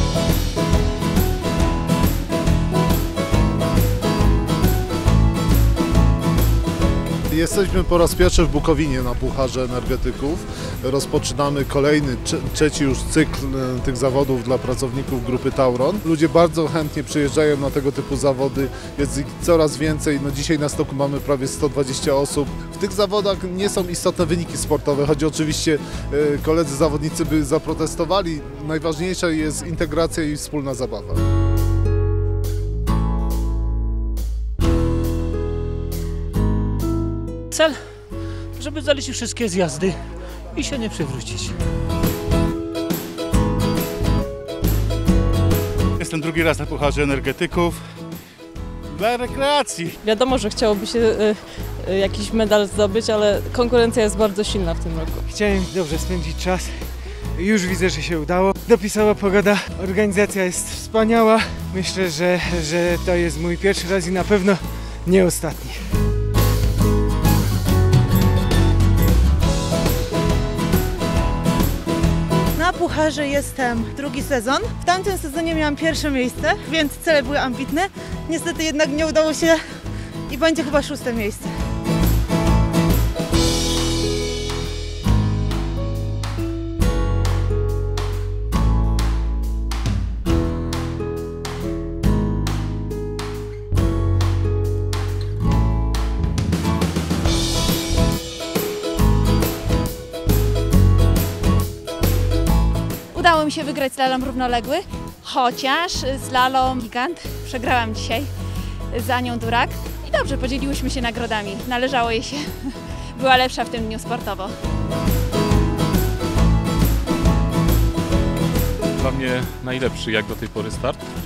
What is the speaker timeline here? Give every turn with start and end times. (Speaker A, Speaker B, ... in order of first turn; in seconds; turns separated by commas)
Speaker A: 7.3-31.2, Speaker B: 37.5-37.8, Speaker B: 38.6-40.0, Speaker B: 40.5-41.5, Speaker C: 46.0-47.8, Speaker C: 48.9-49.9, Speaker D: 50.0-55.3, Speaker E: 55.3-65.8, Speaker F: 72.6-79.6, Speaker F: 80.3-81.5, Speaker G: 103.1-108.3, Speaker G: 108.9-114.5, Speaker H: 119.0-121.0